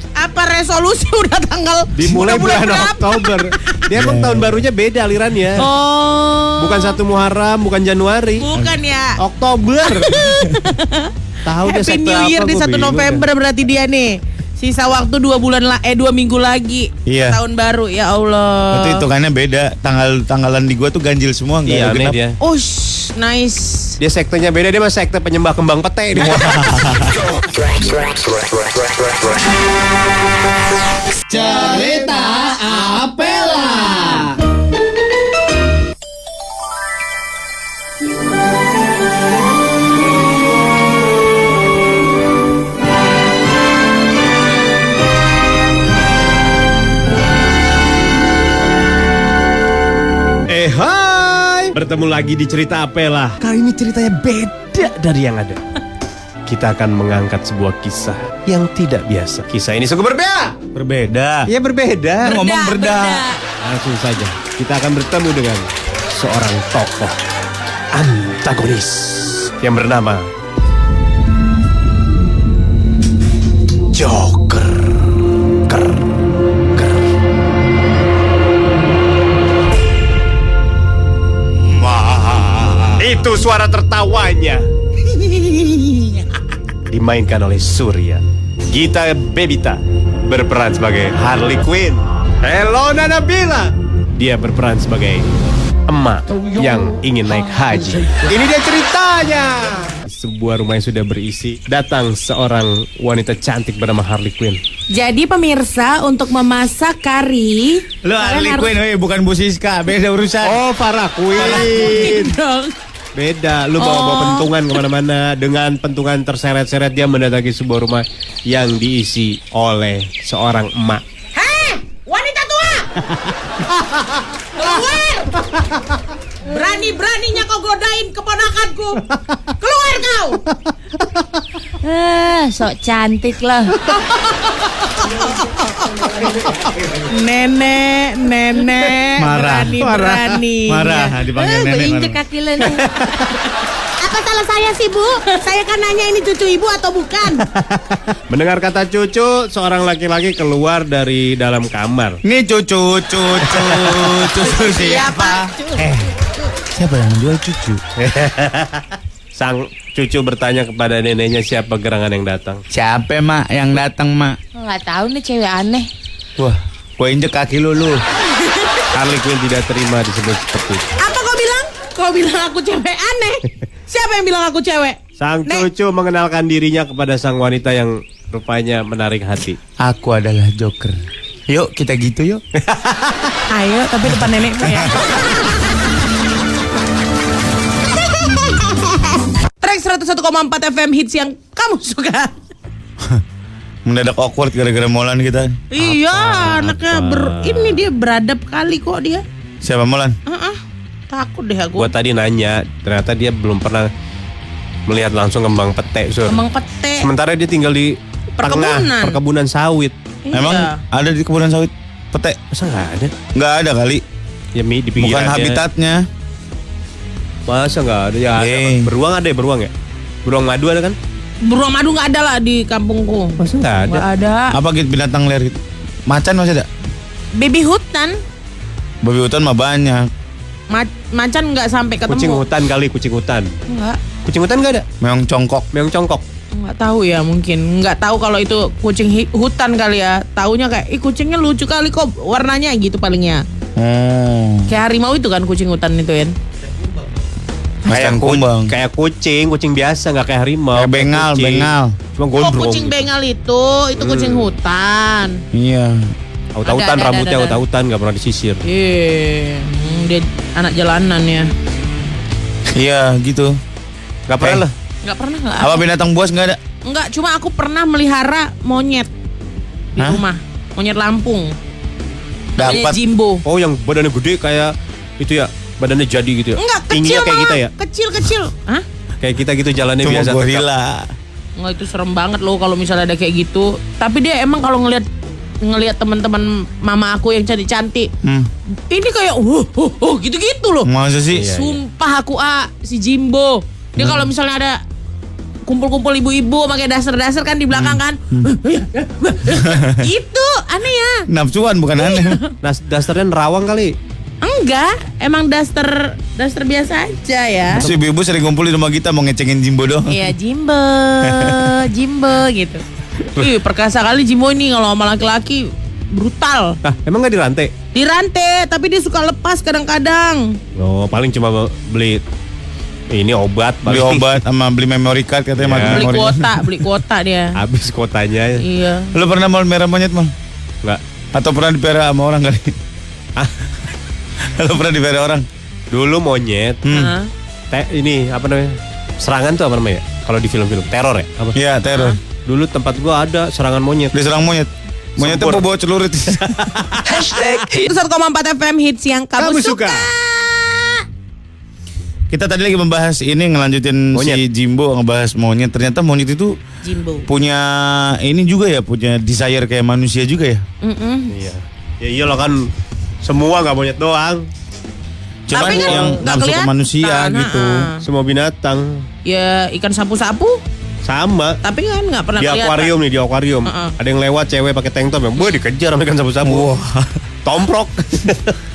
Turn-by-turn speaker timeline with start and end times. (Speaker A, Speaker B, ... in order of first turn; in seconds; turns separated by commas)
Speaker A: 0.2-3.8, Speaker B: 1.9-5.7, Speaker C: 3.9-4.6, Speaker A: 5.6-7.0, Speaker B: 6.6-8.5, Speaker A: 8.4-9.2, Speaker B: 9.2-10.3, Speaker A: 9.8-19.0, Speaker B: 11.4-13.3, Speaker C: 17.1-17.4, Speaker C: 18.7-22.2, Speaker B: 21.7-22.4, Speaker A: 22.4-23.9, Speaker B: 24.0-26.7, Speaker C: 26.2-27.3, Speaker C: 31.3-34.3, Speaker B: 50.5-55.6, Speaker B: 56.5-60.6, Speaker C: 60.7-61.5, Speaker B: 61.5-62.4, Speaker C: 62.2-63.3, Speaker A: 62.2-63.4, Speaker B: 63.6-67.2, Speaker B: 67.9-70.3, Speaker B: 73.9-77.1, Speaker B: 81.9-84.7, Speaker C: 85.2-86.2, Speaker B: 86.9-95.3, Speaker B: 95.9-104.6, Speaker A: 104.9-108.7, Speaker C: 108.0-110.6, Speaker B: 110.4-112.3, Speaker C: 111.4-111.9, Speaker A: 111.4-112.8, Speaker B: 113.1-121.0, Speaker A: 113.8-114.8, Speaker A: 121.3-123.0, Speaker A: 124.5-125.3, Speaker A: 126.5-130.4, Speaker D: 131.8-133.9, Speaker A: 133.8-136.3, Speaker A: 137.1-141.1, Speaker C: 139.2-139.9, Speaker B: 139.8-140.3, Speaker C: 140.7-142.2, Speaker D: 141.3-143.3, Speaker A: 144.0-147.4, Speaker B: 147.5-152.2, Speaker C: 152.2-157.8, Speaker B: 153.4-154.3, Speaker A: 154.3-155.9, Speaker B: 157.9-162.6, Speaker C: 162.7-164.4, Speaker D: 164.6-165.9, Speaker C: 166.4-168.0, Speaker A: 168.4-168.8, Speaker B: 168.9-170.9, Speaker A: 171.0-175.7, Speaker B: 175.2-179.6, Speaker C: 179.8-182.4, Speaker B: 182.6-183.3, Speaker A: 183.5-185.6, Speaker C: 184.6-185.1, Speaker A: 188.2-192.4, Speaker C: 193.8-196.3, Speaker A: 195.7-199.2, Speaker B: 196.2-197.8, Speaker C: 199.6-200.2, Speaker A: 200.2-201.9, Speaker B: 201.8-203.9, Speaker B: 204.9-206.4, Speaker A: 206.3-207.1, Speaker B: 207.0-209.9, Speaker A: 208.4-209.2, Speaker A: 210.2-210.8, Speaker C: 210.3-212.4, Speaker B: 212.5-213.1, Speaker C: 213.3-214.0, Speaker B: 214.5-215.6, Speaker C: 215.0-216.1, Speaker B: 217.5-219.7, Speaker C: 218.3-218.9, Speaker B: 220.2-221.0, Speaker A: 221.4-224.6, Speaker B: 223.4-224.0, Speaker C: 224.5-226.7, Speaker A: 227.3-228.2, Speaker C: 229.0-230.1, Speaker A: 230.7-232.4, Speaker B: 232.1-233.5, Speaker A: 233.7-234.0, Speaker B: 234.2-234.8, Speaker C: 235.0-235.7, Speaker B: 235.7-236.2, Speaker A: 236.5-243.4, Speaker C: 243.8-244.7, Speaker A: 244.7-246.3, Speaker C: 247.8-248.7, Speaker B: 247.9-253.0, Speaker C: 250.7-251.9, Speaker A: 252.3-255.4, Speaker B: 254.0-254.5, Speaker C: 255.5-256.1, Speaker B: 256.5-258.6, Speaker A: 256.6-257.6, Speaker A: 258.6-261.5, Speaker C: 262.7-263.6, Speaker B: 264.3-264.7, Speaker C: 264.4-264.6, Speaker A: 265.0-265.8, Speaker C: 265.6-266.6, Speaker A: 266.8-269.1, Speaker C: 270.0-270.2, Speaker A: 270.0-271.6, Speaker C: 272.6-273.0, Speaker A: 272.6-273.4, Speaker B: 273.4-277.7, Speaker A: 276.6-278.8, Speaker B: 279.2-280.6, Speaker C: 280.0-281.1, Speaker A: 281.6-285.1, Speaker A: 285.6-288.1, Speaker C: 288.2-288.5, Speaker A: 288.9-290.9, Speaker C: 290.8-291.5, Speaker B: 291.3-291.8, Speaker A: 291.4-294.8, Speaker C: 294.0-294.3, Speaker A: 295.6-301.2, Speaker C: 297.7-298.5, Speaker C: 299.5-300.0, Speaker C: 301.3-302.4, Speaker A: 302.0-302.5, Speaker B: 302.6-303.9, Speaker A: 304.4-307.9, Speaker C: 307.7-310.3, Speaker A: 310.1-316.8, Speaker C: 311.2-311.7, Speaker B: 316.8-317.7, Speaker A: 317.9-320.6, Speaker B: 320.8-322.2, Speaker B: 323.1-324.4, Speaker C: 323.9-326.8, Speaker B: 325.6-326.1, Speaker A: 325.9-327.6, Speaker B: 327.5-328.6, Speaker A: 328.6-329.1, Speaker C: 329.1-330.3, Speaker C: 331.3-332.8, Speaker C: 334.4-335.5, Speaker B: 335.9-336.8, Speaker C: 336.8-337.1, Speaker A: 336.9-337.3, Speaker B: 337.7-341.6, Speaker C: 341.5-342.2, Speaker A: 341.9-342.2, Speaker B: 342.4-344.1, Speaker C: 344.1-346.9, Speaker B: 345.2-345.6, Speaker B: 346.4-347.6, Speaker A: 347.1-351.0, Speaker B: 349.4-350.1, Speaker C: 352.3-356.6, Speaker B: 354.1-354.4, Speaker A: 356.8-357.2, Speaker C: 357.2-360.6, Speaker A: 360.8-361.3, Speaker B: 361.3-362.7, Speaker B: 363.2-364.5, Speaker C: 365.5-367.9, Speaker A: 365.5-368.0, Speaker B: 365.6-366.2, Speaker B: 368.0-369.1, Speaker A: 369.2-370.6, Speaker B: 371.0-371.6, Speaker A: 371.6-372.9, Speaker B: 372.4-376.7, Speaker A: 373.6-373.9, Speaker C: 376.4-377.2, Speaker B: 377.4-378.6